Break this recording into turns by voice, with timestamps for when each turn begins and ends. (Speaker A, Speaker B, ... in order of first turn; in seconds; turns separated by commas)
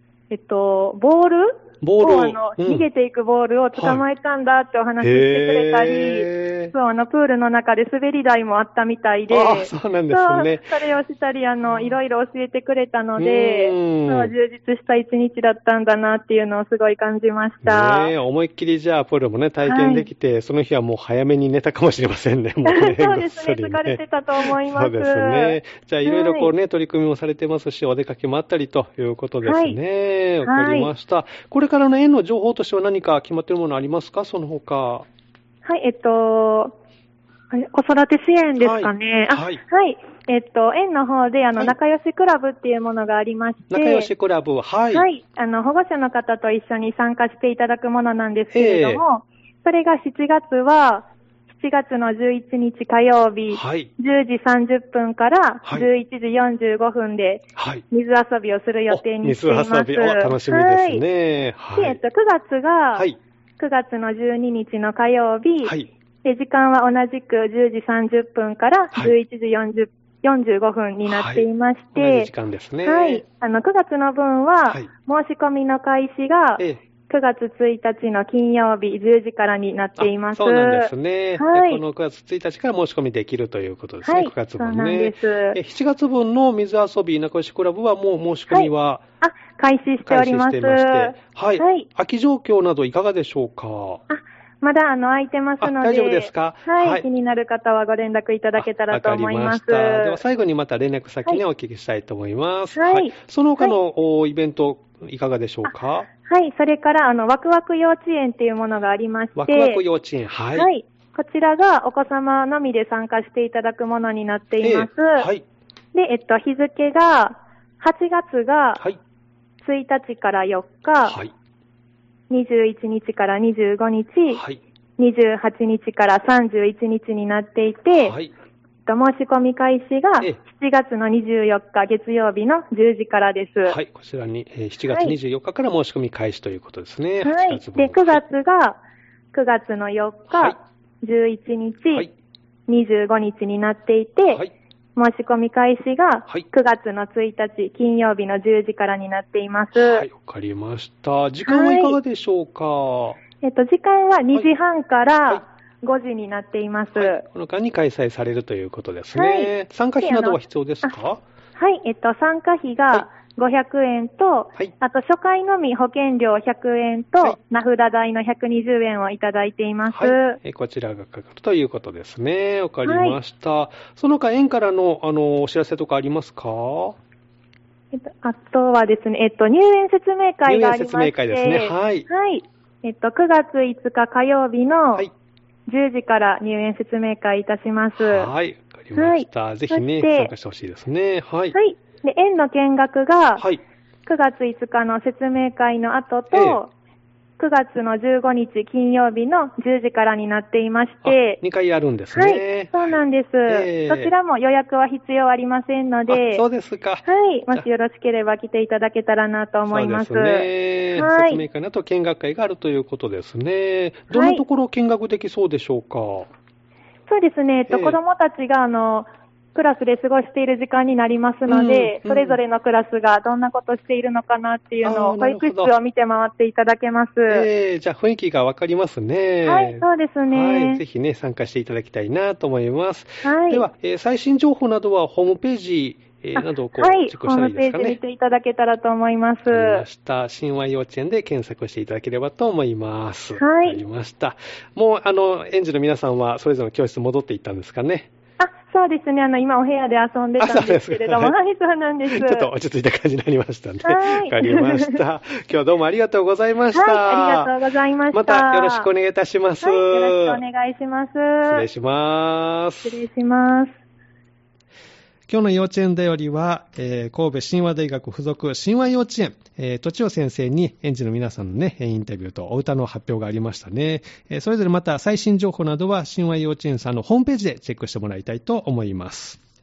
Speaker A: 0.3-18.1, Speaker B: 1.8-2.9, Speaker B: 3.7-4.0, Speaker B: 5.0-6.7, Speaker B: 9.3-10.7, Speaker B: 11.7-12.0, Speaker B: 13.2-14.3, Speaker B: 17.6-35.1, Speaker A: 19.6-20.1, Speaker A: 22.6-26.5, Speaker A: 29.4-29.8, Speaker A: 30.4-30.9, Speaker A: 35.6-36.7, Speaker A: 37.5-44.1, Speaker B: 38.6-39.6, Speaker B: 43.7-45.1, Speaker A: 44.9-61.0, Speaker B: 48.5-49.0, Speaker B: 53.5-53.9, Speaker B: 57.6-57.8, Speaker B: 58.9-62.0, Speaker A: 61.8-63.1, Speaker A: 63.6-72.3, Speaker B: 65.6-65.9, Speaker B: 71.0-73.2, Speaker A: 72.8-81.8, Speaker B: 80.0-89.0, Speaker A: 84.0-85.6, Speaker A: 88.5-91.9, Speaker B: 90.1-94.0, Speaker A: 94.1-100.2, Speaker B: 95.6-97.0, Speaker B: 98.6-106.1, Speaker A: 102.8-103.8, Speaker A: 106.2-109.8, Speaker B: 109.4-110.7, Speaker A: 110.5-115.3, Speaker B: 114.6-115.4, Speaker A: 115.9-118.8, Speaker A: 119.6-121.2, Speaker B: 121.1-121.3, Speaker A: 122.3-124.4, Speaker B: 124.3-124.6, Speaker A: 125.0-128.2, Speaker B: 127.9-128.3, Speaker A: 128.9-133.8, Speaker B: 133.6-138.2, Speaker A: 134.9-135.2, Speaker A: 137.2-138.8, Speaker A: 139.3-142.1, Speaker B: 140.3-140.6, Speaker A: 142.7-144.4, Speaker A: 145.0-150.1, Speaker B: 149.7-153.2, Speaker A: 151.5-152.0, Speaker A: 153.4-157.2, Speaker B: 156.9-161.2, Speaker A: 159.1-160.9, Speaker A: 161.6-170.4, Speaker B: 169.9-177.0, Speaker A: 172.8-173.2, Speaker A: 177.9-185.1, Speaker B: 180.4-182.1, Speaker A: 185.7-188.3, Speaker B: 188.0-191.6, Speaker A: 189.0-190.3, Speaker A: 191.5-193.4, Speaker A: 194.1-196.7, Speaker B: 196.3-196.6, Speaker A: 197.4-201.4, Speaker B: 201.0-204.1, Speaker A: 202.1-206.4, Speaker B: 206.1-207.7, Speaker A: 207.1-211.4, Speaker B: 209.7-216.3, Speaker A: 214.1-214.4, Speaker A: 217.1-227.5, Speaker B: 217.7-218.0, Speaker B: 221.5-222.4, Speaker B: 224.8-225.7, Speaker B: 227.3-238.0, Speaker A: 229.4-230.8, Speaker A: 233.2-233.7, Speaker A: 236.4-239.9, Speaker B: 239.5-248.1, Speaker A: 243.4-243.8, Speaker A: 248.4-252.5, Speaker B: 250.4-251.3, Speaker B: 252.1-257.5, Speaker A: 253.8-255.0, Speaker A: 256.7-258.9, Speaker B: 258.1-260.4, Speaker A: 259.6-261.7, Speaker B: 261.4-263.0, Speaker A: 262.8-263.7, Speaker B: 265.3-279.4